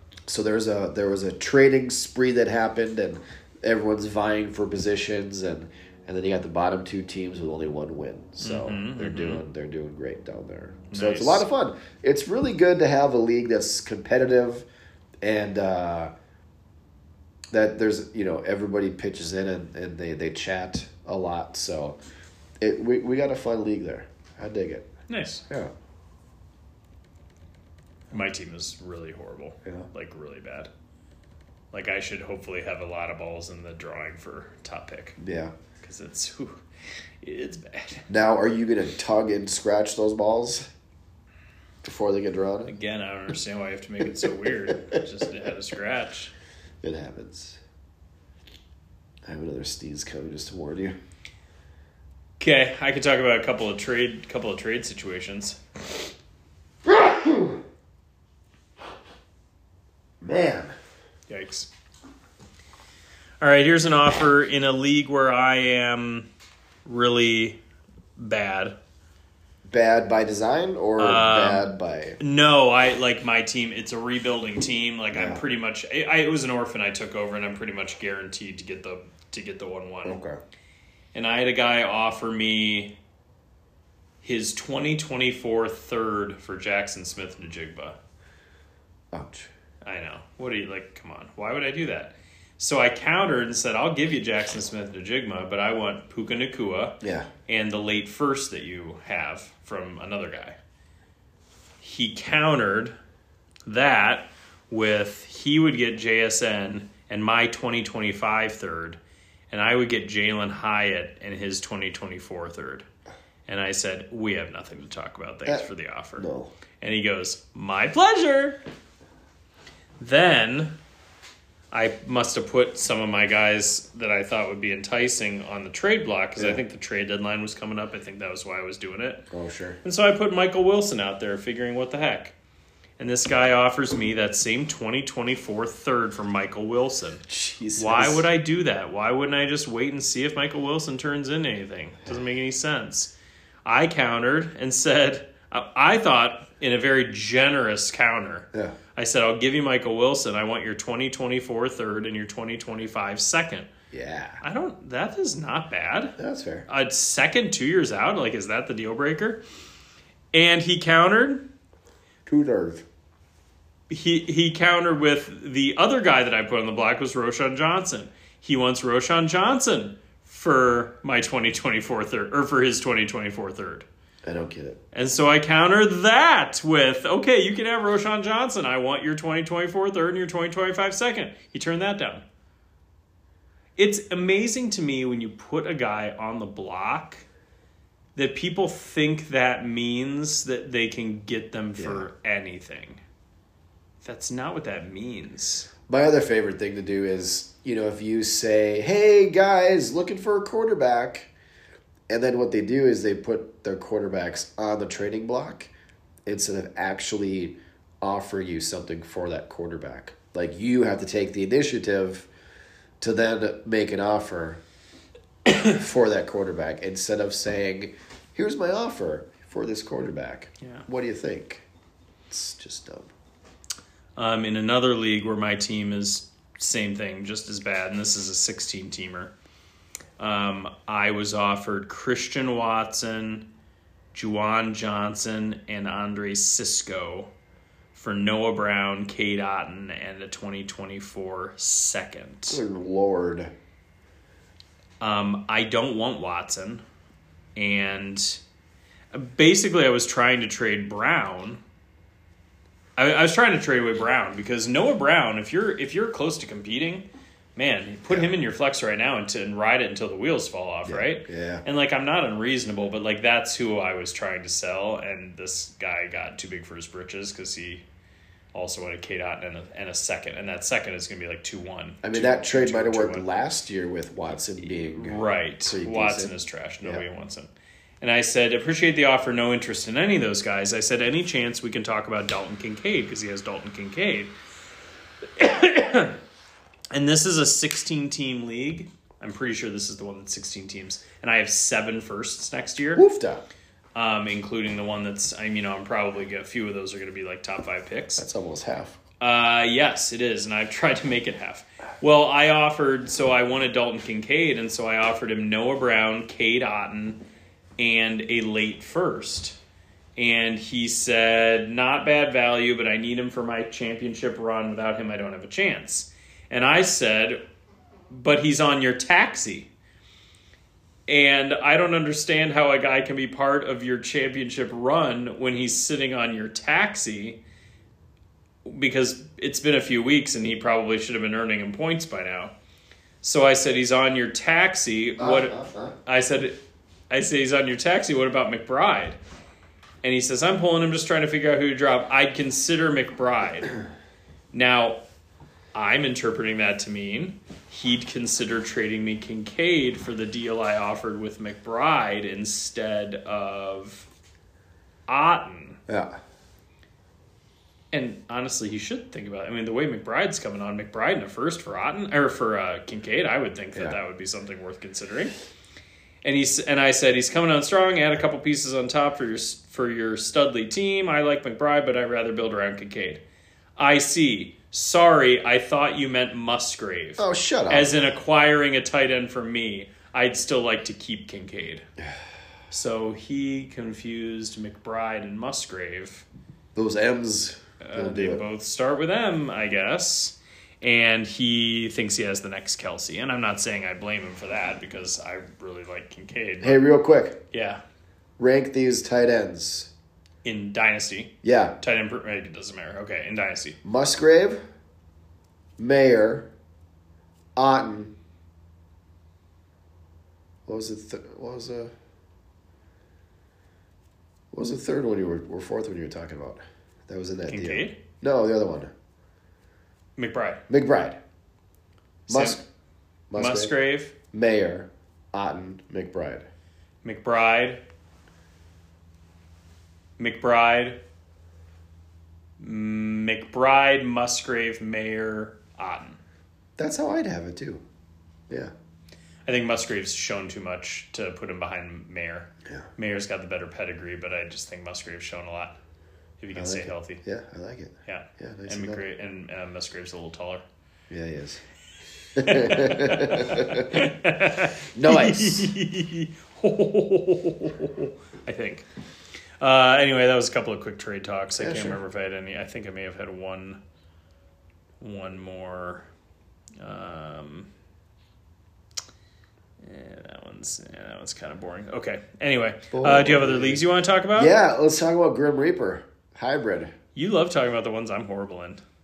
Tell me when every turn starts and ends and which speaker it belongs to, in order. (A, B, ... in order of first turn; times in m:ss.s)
0:00.3-0:14.7 A
0:08.4-0:09.4 B
0:10.9-0:11.5 B
0:15.2-0:16.1 A
0:17.5-0:22.0 A
0:22.6-0:24.9 A
0:25.1-0:25.4 B
0:28.1-0:30.7 B
0:31.7-0:35.2 B
0:35.2-0:35.5 A
0:35.8-0:36.6 B
0:37.2-0:38.1 B
0:38.1-0:40.7 A
0:41.8-0:42.7 A
0:42.7-0:46.3 B
0:44.2-0:45.0 A
0:46.8-0:47.6 A
0:49.3-0:51.0 A
0:52.4-0:55.6 B
0:56.8-0:57.6 A
1:00.2-1:00.7 A
1:01.3-1:01.7 B
1:03.4-1:06.3 B
1:06.9-1:07.6 B
1:08.2-1:08.8 B
1:09.7-1:12.2 A
1:11.0-1:20.2 B
1:15.1-1:15.4 A
1:20.0-1:20.4 A
1:21.1-1:22.9 B
1:24.2-1:28.0 B
1:29.1-1:29.5 A
1:29.8-1:40.6 B
1:37.0-1:37.3 A
1:41.8-1:43.0 B
1:43.7-1:49.0 B
1:49.5-1:52.9 B
1:53.5-1:56.3 B
1:55.5-1:56.5 A
1:56.8-1:58.6 B
2:00.0-2:00.7 B
2:01.7-2:09.3 B
2:06.4-2:06.6 A
2:09.3-2:09.8 A
2:09.8-2:12.3 B
2:13.0-2:17.2 B
2:17.3-2:18.3 A
2:17.8-2:23.1 B
2:23.6-2:33.7 B
2:33.9-2:34.4 A
2:34.4-2:39.4 B
2:36.2-2:36.7 A
2:40.3-2:41.4 B
2:42.3-2:42.8 A
2:43.9-2:53.9 B
2:54.3-2:54.8 A
2:54.9-3:02.2 B
3:03.8-3:07.2 B
3:08.2-3:13.0 B
3:11.8-3:12.1 A
3:14.0-3:15.7 B
3:15.9-3:21.3 A
3:22.1-3:25.7 A
3:26.3-3:32.3 A
3:33.0-3:34.6 A
3:35.6-3:41.6 A
3:42.3-3:43.1 A
3:44.2-3:49.3 B
3:50.2-3:53.5 B
3:54.1-3:57.3 B
3:57.9-4:02.6 B
4:02.5-4:03.5 A
4:05.0-4:06.8 B
4:07.6-4:08.4 B
4:09.1-4:11.6 B
4:13.0-4:27.8 B
4:18.1-4:18.4 A
4:20.9-4:21.6 A
4:28.5-4:33.3 B
4:32.0-4:37.0 A
4:34.6-4:37.5 B
4:38.0-4:44.3 B
4:45.4-4:46.2 B
4:46.9-4:53.0 B
4:53.0-4:53.5 A
4:54.0-4:58.3 B
4:58.2-4:59.0 A
4:59.2-5:07.2 B
5:07.8-5:09.6 B
5:10.2-5:17.4 B
5:18.1-5:19.7 B
5:21.1-5:27.4 B
5:28.6-5:32.5 B
5:33.2-5:36.6 B
5:35.2-5:35.9 A
5:37.1-5:39.2 B
5:40.0-5:43.7 B
5:44.5-5:45.0 B
5:45.7-5:54.1 B
5:55.1-5:55.8 B
5:55.9-5:56.2 A
5:57.9-6:05.3 B
6:06.2-6:13.2 B
6:13.8-6:21.9 B
6:17.2-6:18.0 A
6:22.7-6:26.3 B
6:26.8-6:28.4 A
6:27.8-6:36.8 B
6:36.6-6:37.4 A
6:37.5-6:37.8 B
6:38.4-6:39.9 A
6:40.4-6:43.8 B
6:41.4-6:41.8 A
6:43.8-6:44.6 A
6:45.8-6:46.5 A
6:47.6-6:48.1 A
6:50.7-6:51.9 A
6:54.5-6:58.9 A
6:57.5-6:58.0 B
7:00.2-7:00.6 B
7:00.7-7:01.2 A
7:02.3-7:02.6 B
7:02.3-7:02.6 A
7:03.3-7:03.7 A
7:03.4-7:04.1 B
7:04.3-7:06.5 A
7:07.0-7:07.8 B
7:10.2-7:11.0 B
7:12.6-7:16.2 B
7:16.8-7:17.8 A
7:19.5-7:25.8 B
7:26.4-7:27.2 B
7:26.6-7:29.0 A
7:28.1-7:30.6 B
7:31.1-7:31.6 A
7:32.4-7:34.1 A
7:32.4-7:38.9 B
7:35.0-7:35.7 A
7:39.6-7:43.8 B
7:41.6-7:42.0 A
7:45.0-7:46.1 B
7:46.8-7:47.7 B
7:49.8-7:54.5 B
7:52.9-7:53.8 A
7:54.3-7:56.9 A
7:57.2-7:58.8 B